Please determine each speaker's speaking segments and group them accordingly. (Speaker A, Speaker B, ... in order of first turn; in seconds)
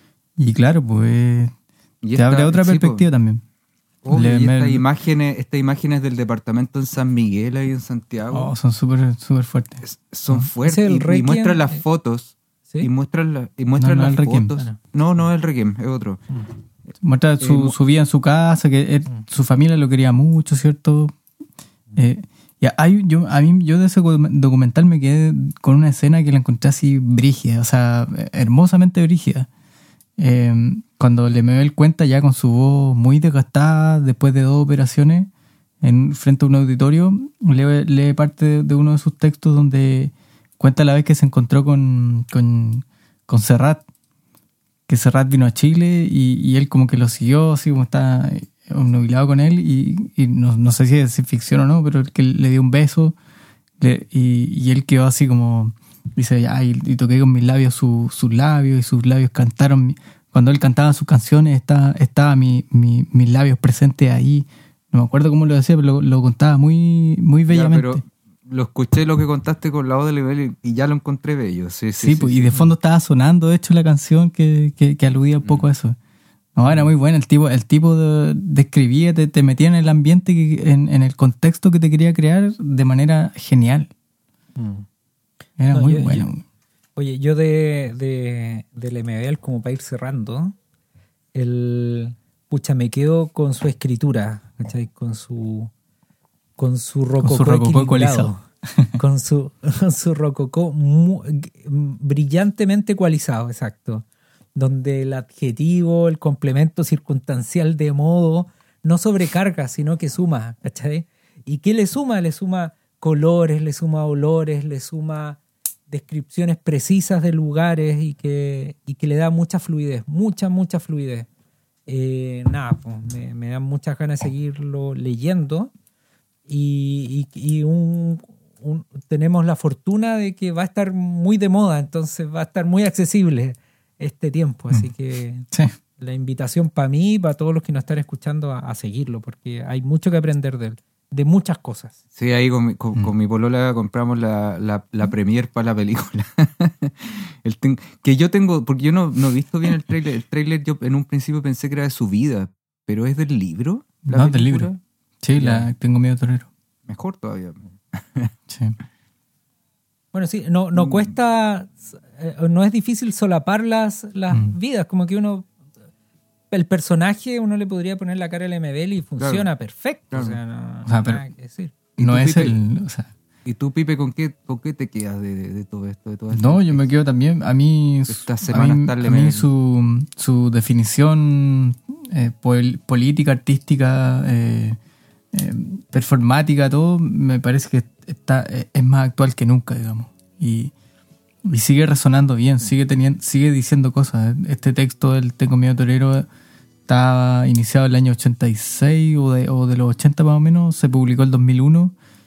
Speaker A: 0.4-1.5, 2.1-3.4, 4.1-4.8, 8.3-10.5, 13.8-14.6, 17.0-21.1, 21.9-29.5, 30.2-35.3, 35.8-43.8, 44.9-53.1, 53.8-68.0, 72.0-76.0, 76.5-83.9, 85.6-86.4, 97.2-99.0, 154.1-154.7, 155.2-156.5, 158.5-158.8, 170.9-171.2, 172.0-173.1, 176.3-184.8, 185.3-190.7, 191.4-196.3, 196.9-201.9
Speaker B: 2.0-3.1, 4.0-8.5, 9.8-16.2, 17.4-17.8, 67.5-72.5, 142.2-154.8, 155.4-155.7, 156.9-158.3, 160.8-161.1, 169.2-169.5, 172.0-172.6, 173.4-176.8, 178.1-179.5
Speaker C: 10.6-11.8, 84.6-84.9, 85.7-86.3, 87.0-90.5, 91.3-95.7, 96.6-98.4, 99.0-121.3, 121.9-125.7, 126.5-135.5, 136.0-141.9, 160.1-165.5, 166.5-171.8